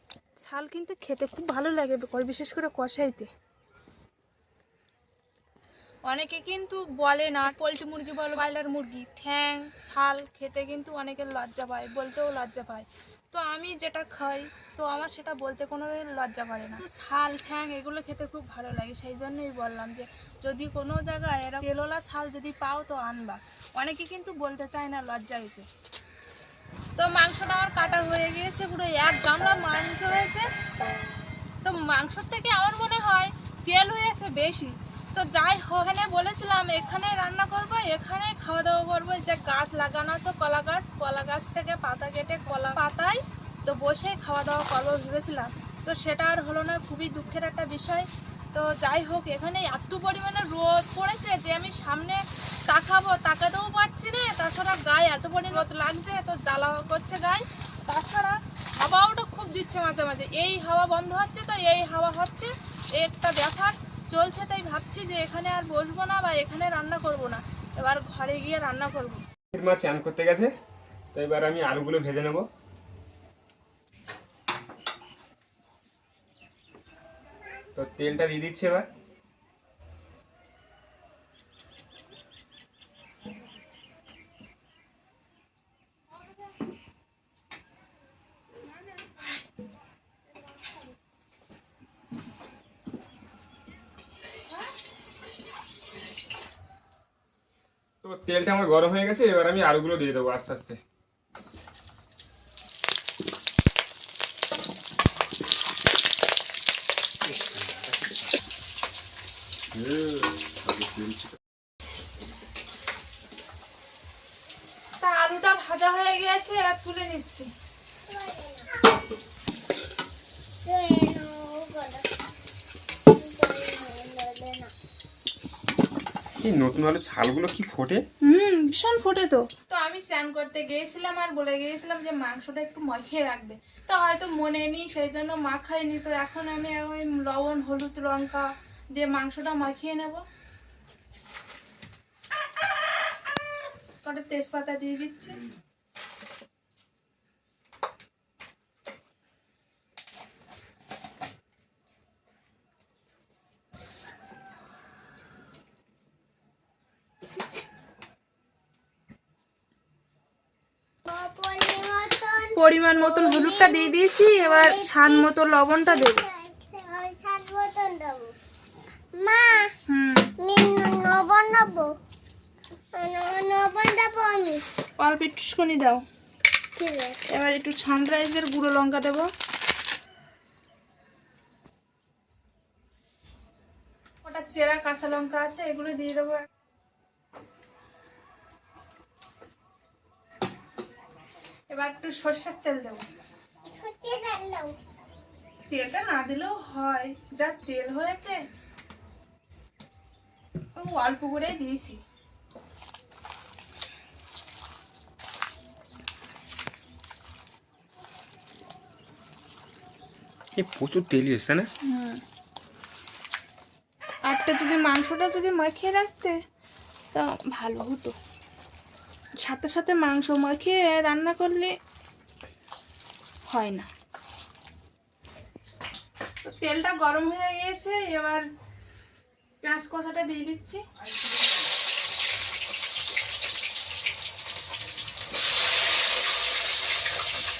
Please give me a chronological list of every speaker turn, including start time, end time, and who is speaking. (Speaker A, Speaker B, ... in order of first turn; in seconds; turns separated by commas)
Speaker A: 0.4-3.3, Speaker A: 6.1-25.7, Speaker A: 27.0-30.5, Speaker A: 31.6-69.2, Speaker B: 69.5-70.5, Speaker B: 71.1-72.5, Speaker B: 77.8-78.9, Speaker A: 88.7-89.3, Speaker A: 90.3-90.9, Speaker B: 98.0-100.8, Speaker B: 107.2-108.0, Speaker B: 109.7-111.4, Speaker A: 115.0-117.5, Speaker C: 118.1-118.8, Speaker C: 120.6-122.1, Speaker C: 123.1-124.7, Speaker B: 126.4-128.0, Speaker A: 128.2-140.2, Speaker A: 144.0-145.4, Speaker C: 161.1-165.3, Speaker A: 162.6-166.2, Speaker C: 165.9-168.3, Speaker C: 169.1-169.7, Speaker A: 169.9-170.3, Speaker C: 170.4-171.9, Speaker C: 172.9-174.6, Speaker A: 175.0-176.0, Speaker C: 176.8-177.2, Speaker A: 177.3-179.3, Speaker A: 184.2-186.4, Speaker A: 191.7-193.1, Speaker C: 193.7-194.8, Speaker A: 195.7-198.4, Speaker A: 200.7-202.0, Speaker B: 210.6-211.7, Speaker A: 211.8-212.2, Speaker A: 214.3-216.4, Speaker A: 217.1-218.2, Speaker A: 219.4-221.7, Speaker A: 223.5-223.9, Speaker A: 226.4-228.4, Speaker A: 229.6-230.8